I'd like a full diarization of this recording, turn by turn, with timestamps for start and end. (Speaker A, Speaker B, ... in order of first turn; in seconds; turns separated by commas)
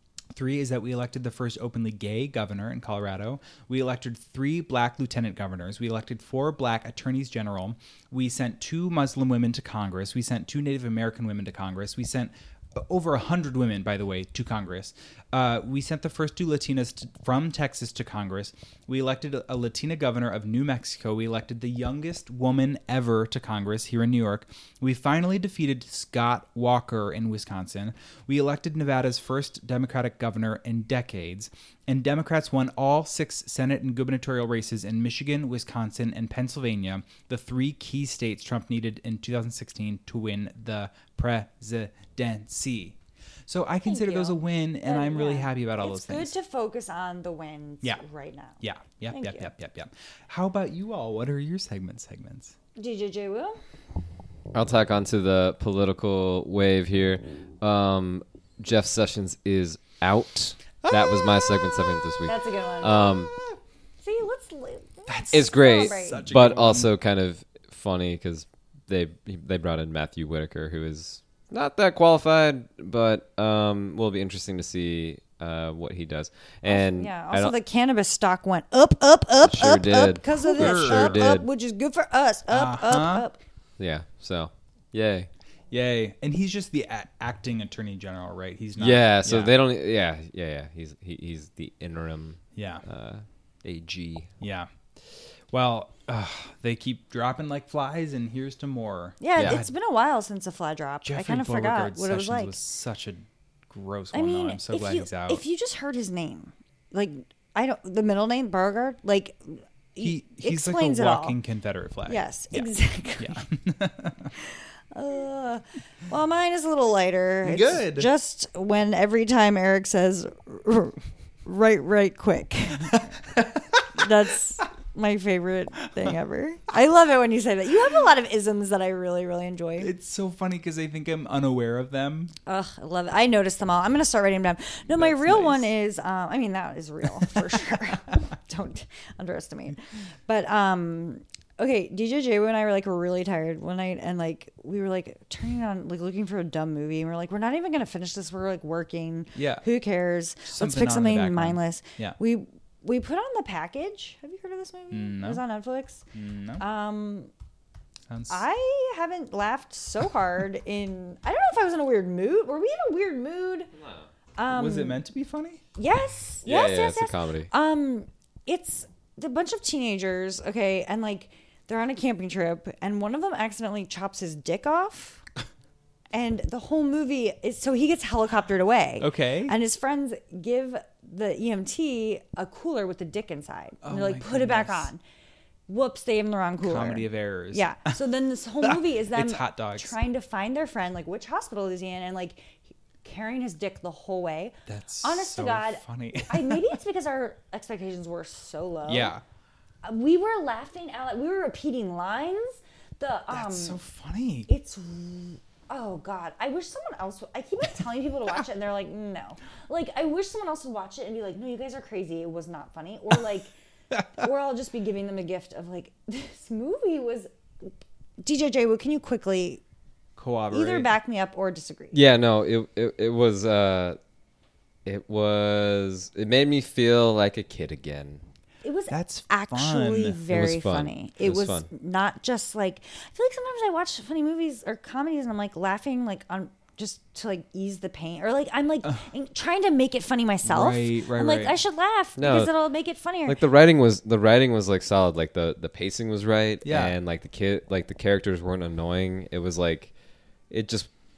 Speaker A: 0.3-46.3, Speaker B: 43.8-49.5, Speaker A: 48.6-52.5, Speaker B: 52.8-53.6, Speaker C: 54.5-63.3, Speaker A: 60.8-61.8, Speaker B: 62.3-63.1, Speaker B: 64.0-66.3, Speaker A: 65.1-66.9, Speaker C: 65.3-77.5, Speaker B: 76.7-83.4, Speaker C: 79.4-81.5, Speaker A: 80.3-81.3, Speaker A: 82.5-83.3, Speaker C: 83.8-85.3, Speaker A: 85.7-89.5, Speaker C: 88.8-94.3, Speaker A: 92.5-92.8, Speaker A: 94.4-99.7, Speaker B: 99.2-102.6, Speaker A: 101.0-105.4, Speaker B: 104.1-111.4, Speaker A: 110.0-114.3, Speaker B: 112.1-113.4, Speaker B: 114.9-123.0, Speaker A: 117.4-118.1, Speaker A: 122.9-123.6, Speaker B: 123.9-129.9, Speaker A: 129.8-132.3, Speaker B: 132.4-156.1, Speaker A: 134.9-135.7, Speaker A: 149.3-149.6, Speaker A: 150.4-152.2, Speaker A: 154.9-155.4, Speaker A: 156.1-156.6, Speaker B: 156.6-157.3, Speaker A: 158.1-158.4, Speaker B: 158.3-163.7, Speaker C: 163.8-164.1, Speaker B: 164.4-165.0, Speaker A: 164.5-165.6, Speaker B: 165.8-175.2, Speaker C: 166.4-167.5, Speaker B: 176.1-185.0, Speaker A: 179.0-179.5, Speaker A: 183.8-184.9, Speaker B: 185.7-199.1, Speaker A: 186.6-188.0, Speaker A: 188.6-190.0, Speaker A: 194.7-196.7, Speaker A: 198.8-199.2, Speaker B: 199.8-203.8, Speaker A: 203.3-204.5, Speaker B: 204.5-213.5, Speaker B: 214.1-219.6, Speaker A: 220.2-220.9, Speaker B: 220.5-222.0, Speaker C: 221.9-224.0, Speaker C: 224.8-228.2, Speaker B: 228.6-243.4, Speaker A: 228.9-230.2, Speaker C: 230.2-231.7, Speaker A: 240.4-241.6, Speaker C: 242.2-242.5, Speaker C: 243.2-249.9, Speaker A: 246.6-246.9, Speaker C: 250.5-250.9